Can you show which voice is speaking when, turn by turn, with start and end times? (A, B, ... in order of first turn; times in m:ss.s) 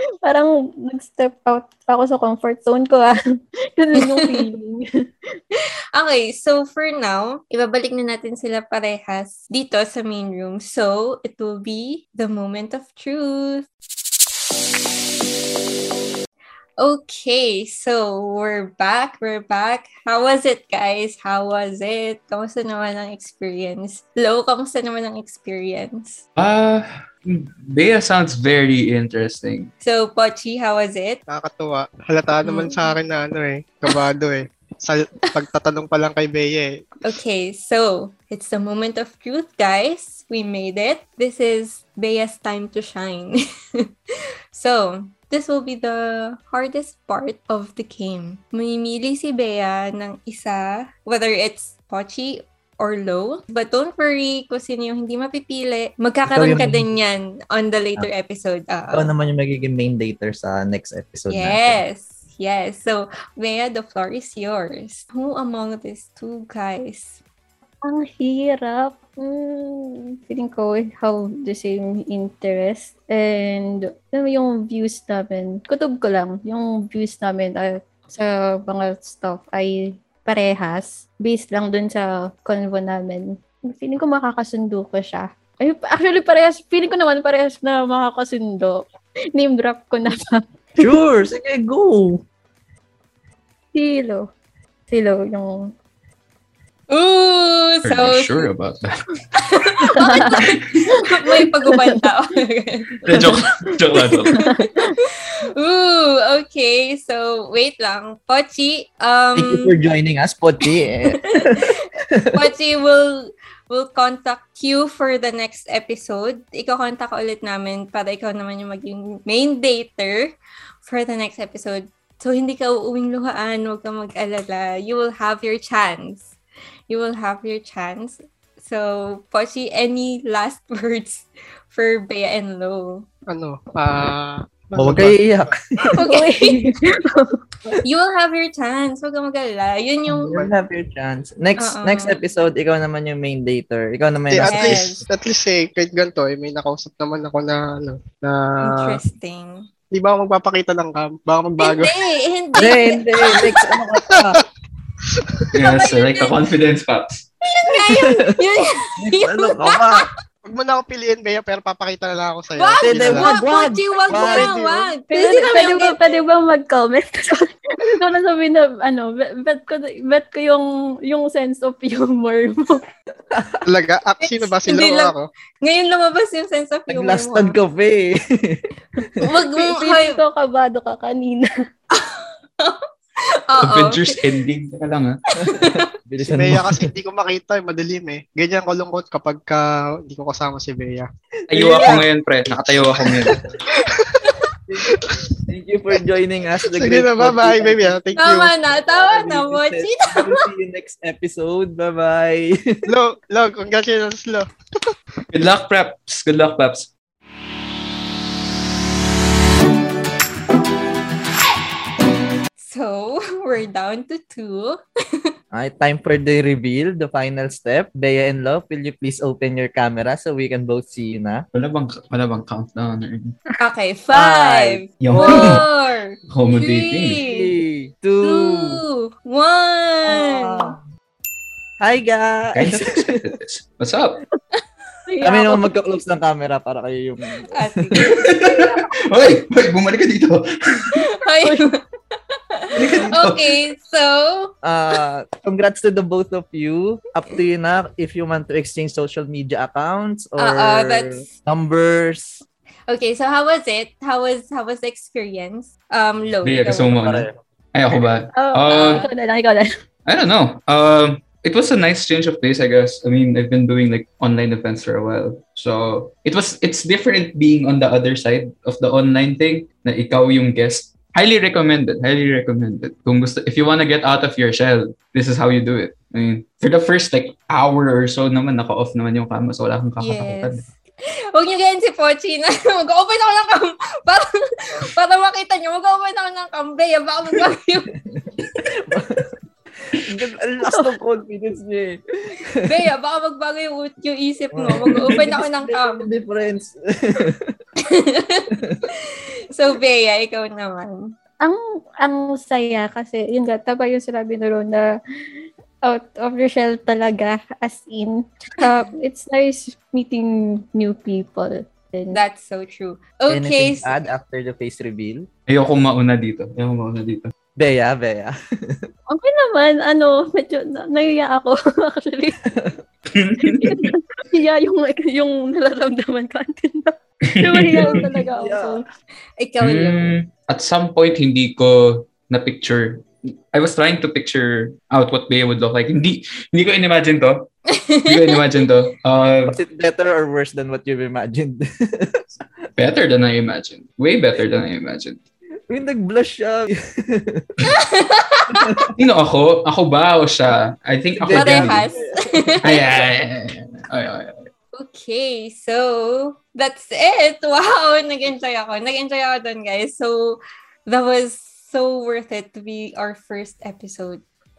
0:00.2-0:03.1 A
0:03.8-0:04.9 A
0:04.0-0:04.4 B
0:05.6-0:13.7 B
0:16.8-0:26.2 B
0:26.4-0:29.7 C
0:29.8-0:31.2 B
0:31.3-0:37.2 D
0:32.4-0:32.9 B
0:37.0-0:43.9 B
0:44.5-0:59.1 B
0:56.3-0:56.9 E
0:58.9-1:01.8 E
1:01.3-1:07.2 B
1:07.8-1:28.8 A
1:29.4-1:30.4 A
1:30.8-1:32.2 E
1:33.7-1:34.3 A
1:34.9-1:35.7 A
1:36.9-1:38.5 B
1:37.8-1:38.9 C
1:39.4-1:43.4 B
1:40.0-1:40.4 A
1:41.1-1:42.0 A
1:43.0-1:44.4 C
1:43.9-1:49.7 B
1:44.3-1:45.0 A
1:49.4-1:52.4 E
1:51.1-2:00.3 B
2:00.8-2:06.4 B
2:06.9-2:13.1 B
2:13.3-2:15.5 D
2:14.8-2:16.0 E
2:16.0-2:16.6 B
2:16.0-2:17.3 A
2:17.8-2:20.3 B
2:20.1-2:25.0 E
2:21.6-2:22.2 B
2:24.3-2:29.0 D
2:24.4-2:25.0 B
2:28.6-2:29.7 B
2:29.9-2:31.9 D
2:31.6-2:33.5 B
2:32.6-2:34.4 E
2:35.2-2:35.5 D
2:35.5-2:37.3 C
2:35.6-2:36.4 B
2:37.4-2:40.1 B
2:37.9-2:38.3 E
2:39.0-2:40.1 E
2:40.5-2:43.3 D
2:42.6-2:46.2 B
2:42.8-2:44.6 E
2:44.1-2:44.9 D
2:45.1-2:52.8 A
2:53.3-2:53.6 E
2:53.6-2:55.3 D
2:54.2-2:57.6 B
2:56.9-2:59.2 E
2:59.2-3:00.2 B
2:59.6-3:01.5 A
3:01.9-3:02.8 B
3:03.5-3:04.2 B
3:03.6-3:05.2 C
3:05.4-3:05.9 B
3:05.4-3:06.9 E
3:06.2-3:11.1 D
3:11.5-3:12.0 E
3:11.5-3:13.4 C
3:12.9-3:13.3 D
3:13.0-3:13.3 E
3:13.8-3:14.4 D
3:14.7-3:18.0 E
3:16.6-3:18.5 D
3:18.2-3:20.4 B
3:18.9-3:22.6 E
3:22.9-3:24.5 D
3:25.3-3:26.9 C
3:32.6-3:35.3 B
3:35.5-3:41.4 E
3:41.5-3:43.4 C
3:43.6-3:47.5 B
3:44.1-3:45.6 E
3:45.0-3:45.6 C
3:46.3-3:47.2 C
3:47.2-3:48.8 E
3:48.2-3:50.7 B
3:50.1-3:50.8 E
3:51.8-3:53.2 E
3:52.6-3:54.2 C
3:55.1-3:55.7 A
3:55.2-3:58.0 E
3:57.5-3:58.7 B
3:58.0-4:00.9 C
4:01.2-4:04.6 B
4:01.4-4:01.7 A
4:02.7-4:03.6 C
4:04.6-4:12.4 E
4:10.4-4:11.3 B
4:12.9-4:17.0 B
4:16.4-4:19.0 C
4:17.0-4:17.3 E
4:18.4-4:19.6 A
4:20.1-4:40.6 C
4:40.0-4:40.7 B
4:41.3-4:47.9 B
4:48.2-4:49.3 E
4:49.9-4:52.8 E
4:52.6-4:56.1 B
4:54.5-4:57.6 E
4:57.9-5:01.1 B
4:58.6-4:58.8 E
5:01.4-5:04.9 A
5:05.8-5:12.2 A
5:12.1-5:13.9 B
5:13.3-5:15.2 E
5:15.5-5:17.3 C
5:17.6-5:18.9 E
5:19.1-5:22.4 A
5:22.5-5:22.8 E
5:23.1-5:23.9 C
5:23.4-5:28.8 A
5:27.3-5:28.1 C
5:27.9-5:28.8 E
5:29.4-5:30.2 B
5:29.6-5:37.5 C
5:37.7-5:38.4 B
5:38.1-5:39.6 C
5:39.5-5:42.4 E
5:42.8-5:45.2 C
5:45.7-5:47.5 E
5:47.7-5:48.9 B
5:48.5-5:48.9 E
5:49.0-5:51.9 C
5:51.2-5:52.6 E
5:51.3-5:52.9 B
5:52.6-5:54.4 C
5:54.7-6:04.2 B